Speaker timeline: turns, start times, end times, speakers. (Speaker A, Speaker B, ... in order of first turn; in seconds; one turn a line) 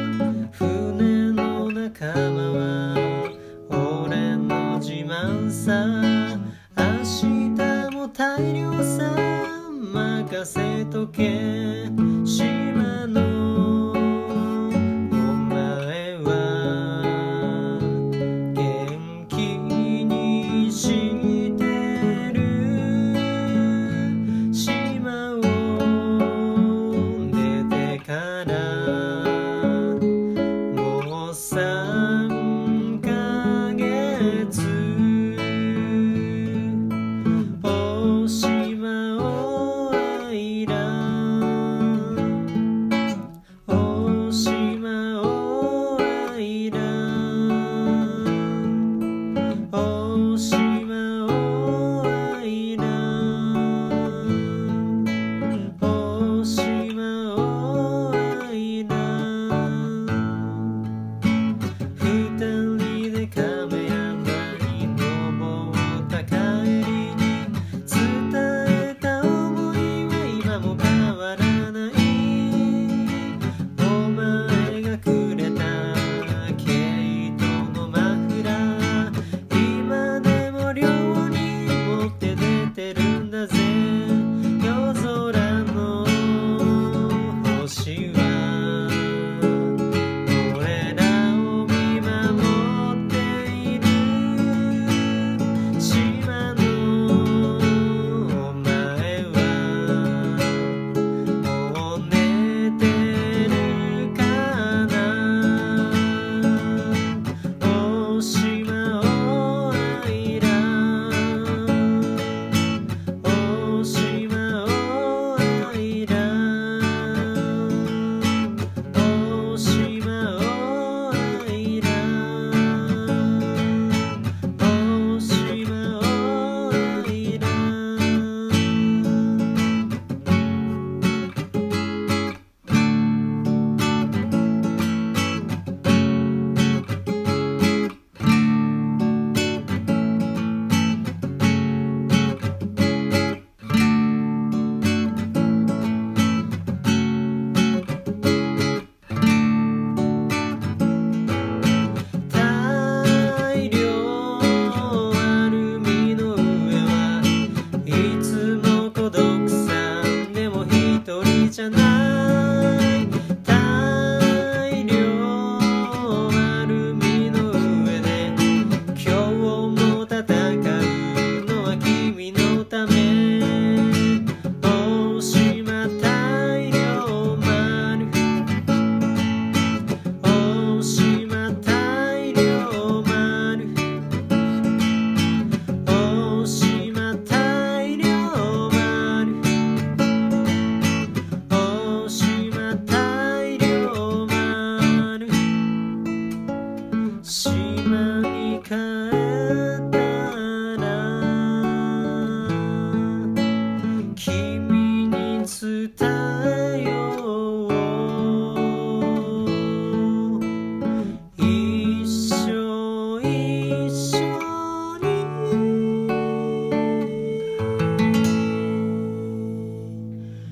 Speaker A: 0.5-14.2
Speaker A: 15.1-17.6
Speaker A: 18.5-23.5
Speaker A: 24.5-29.4
Speaker A: 30.7-35.7
Speaker A: 37.6-41.8
Speaker A: 43.7-48.1
Speaker A: 49.7-54.5
Speaker A: 55.6-60.5
Speaker A: 62.0-89.2
Speaker A: 90.3-94.9
Speaker A: 95.8-100.6
Speaker A: 101.4-106.1
Speaker A: 107.6-112.0
Speaker A: 113.2-118.2
Speaker A: 118.9-123.5
Speaker A: 124.6-128.7
Speaker A: 152.3-157.2
Speaker A: 157.8-162.8
Speaker A: 163.4-168.3
Speaker A: 168.9-173.9
Speaker A: 174.6-178.2
Speaker A: 180.2-183.7
Speaker A: 185.8-189.4
Speaker A: 191.5-195.3
Speaker A: 197.2-201.6
Speaker A: 204.2-208.6
Speaker A: 211.4-214.7